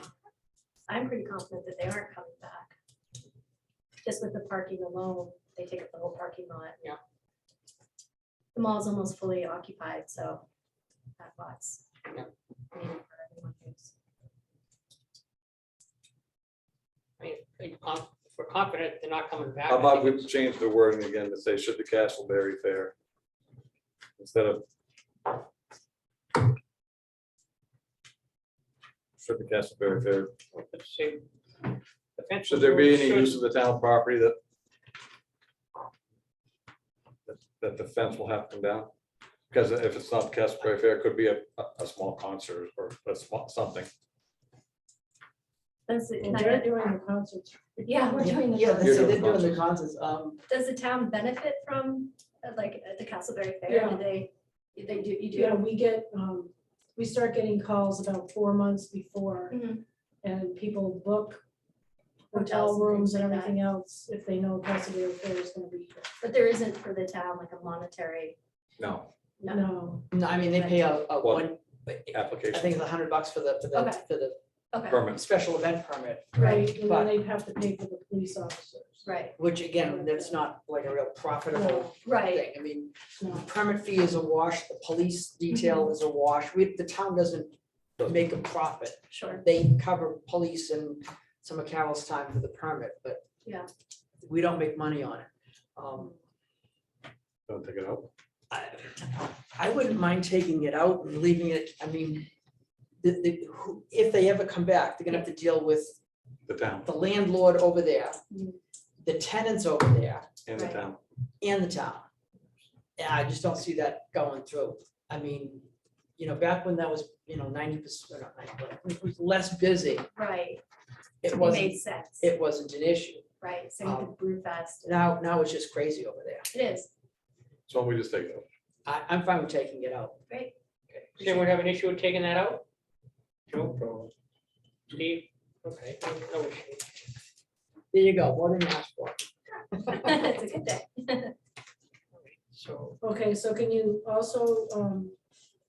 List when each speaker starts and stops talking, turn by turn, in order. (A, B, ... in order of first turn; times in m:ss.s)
0:00.9-0:02.7 A
0:04.0-0:06.9 A
0:08.5-0:10.4 A
0:11.2-0:11.9 A
0:12.7-0:13.9 A
0:17.2-0:20.3 B
0:19.7-0:22.9 C
0:24.2-0:24.6 C
0:29.2-0:30.3 C
0:30.5-0:33.4 B
0:32.5-0:34.4 C
0:37.3-0:38.9 C
0:39.5-0:43.9 C
0:45.9-0:46.9 A
0:46.2-0:48.5 D
0:47.8-0:49.2 A
0:48.5-0:50.4 E
0:48.8-0:49.6 C
0:50.5-0:55.6 A
0:53.7-0:54.2 D
0:55.3-0:59.6 D
0:59.5-0:59.8 A
1:00.2-1:01.4 D
1:02.3-1:03.6 A
1:02.3-1:06.1 D
1:06.2-1:08.4 A
1:08.8-1:09.1 C
1:09.4-1:11.0 A
1:09.5-1:10.1 D
1:10.1-1:14.4 E
1:11.2-1:11.5 C
1:12.1-1:12.7 C
1:13.7-1:14.0 A
1:14.7-1:15.0 A
1:14.9-1:15.2 C
1:15.0-1:17.1 E
1:16.3-1:16.6 A
1:16.4-1:20.4 D
1:19.0-1:19.4 A
1:19.4-1:33.2 E
1:21.5-1:21.9 D
1:22.0-1:22.4 A
1:23.2-1:23.5 D
1:29.1-1:29.4 A
1:33.4-1:33.7 A
1:34.2-1:36.1 E
1:37.5-1:38.1 C
1:38.5-1:42.3 E
1:43.0-1:46.0 E
1:46.5-1:46.9 C
1:46.8-1:48.2 E
1:48.3-1:48.6 A
1:49.0-1:50.3 E
1:50.4-1:51.0 C
1:50.5-1:50.8 A
1:51.4-1:52.0 E
1:53.0-1:55.6 E
1:56.2-2:00.1 E
2:00.2-2:00.6 A
2:01.2-2:03.2 E
2:01.3-2:02.3 A
2:03.4-2:05.0 A
2:03.8-2:04.1 E
2:04.8-2:06.5 E
2:06.5-2:06.9 A
2:07.7-2:08.4 C
2:08.8-2:10.2 E
2:10.9-2:12.6 B
2:11.2-2:11.5 A
2:13.5-2:14.1 B
2:14.9-2:16.9 B
2:17.9-2:20.0 E
2:19.9-2:21.3 A
2:22.2-2:23.0 B
2:23.0-2:25.2 D